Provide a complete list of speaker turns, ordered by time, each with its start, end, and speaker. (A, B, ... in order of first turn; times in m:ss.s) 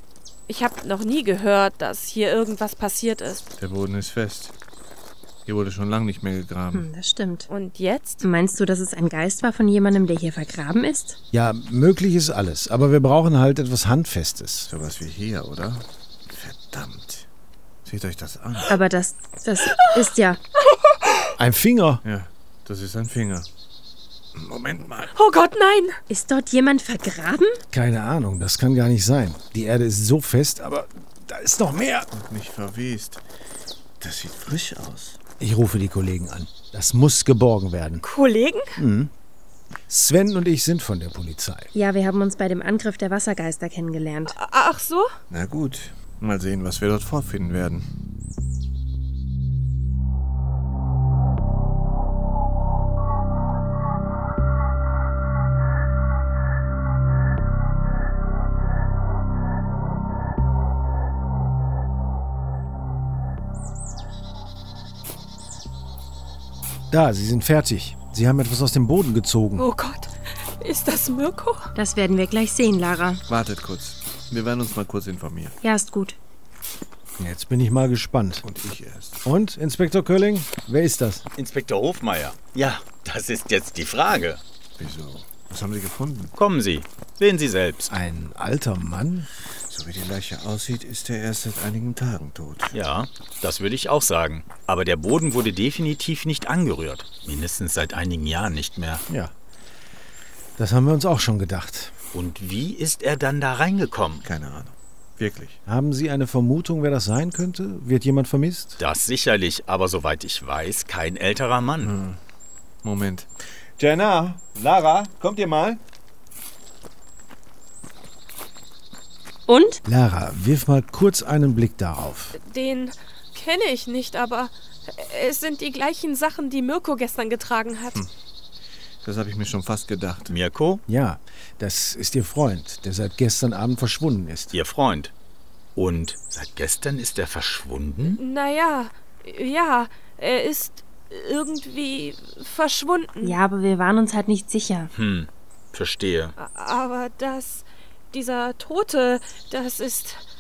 0:00.5-0:03.5 A
0:03.6-0:04.5 B
0:05.5-0:06.9 B
0:06.7-0:07.5 C
0:07.5-0:08.2 A
0:08.2-0:11.2 C
0:11.3-0:14.7 D
0:14.7-0:17.3 B
0:17.8-0:18.8 B
0:18.7-0:20.4 C
0:19.7-0:20.0 A
0:20.6-0:21.2 A
0:21.4-0:22.0 D
0:22.0-0:23.5 B
0:24.4-0:25.1 B
0:25.2-0:26.0 A
0:26.1-0:27.6 C
0:27.7-0:32.1 D
0:32.1-0:33.2 B
0:34.0-0:35.2 B
0:35.4-0:38.0 D
0:38.0-0:38.8 A
0:38.8-0:39.1 D
0:39.9-0:41.7 D
0:41.7-0:44.4 C
0:44.3-0:45.1 A
0:45.3-0:47.8 B
1:06.9-1:09.7 D
1:09.6-1:11.7 A
1:11.8-1:13.2 C
1:13.3-1:15.6 B
1:15.6-1:16.2 C
1:17.2-1:18.4 D
1:18.4-1:19.2 B
1:19.2-1:21.2 D
1:21.4-1:24.4 E
1:24.8-1:26.3 B
1:26.4-1:27.9 E
1:27.9-1:29.3 D
1:29.7-1:32.7 B
1:32.7-1:39.0 E
1:40.6-1:41.9 D
1:42.1-1:44.2 E
1:44.2-1:45.6 B
1:45.7-1:48.8 D
1:48.8-1:51.9 E
1:51.8-1:52.2 B
1:52.8-1:53.3 B
1:53.8-1:55.8 F
1:59.5-1:59.8 C
1:59.8-2:02.4 D
2:02.4-2:08.0 A
2:09.0-2:10.4 B
2:10.3-2:10.8 E
2:10.9-2:14.5 D
2:14.5-2:15.1 E
2:15.8-2:18.2 E
2:18.2-2:23.4 A
2:23.2-2:24.9 C
2:24.9-2:26.4 E
2:26.4-2:30.2 A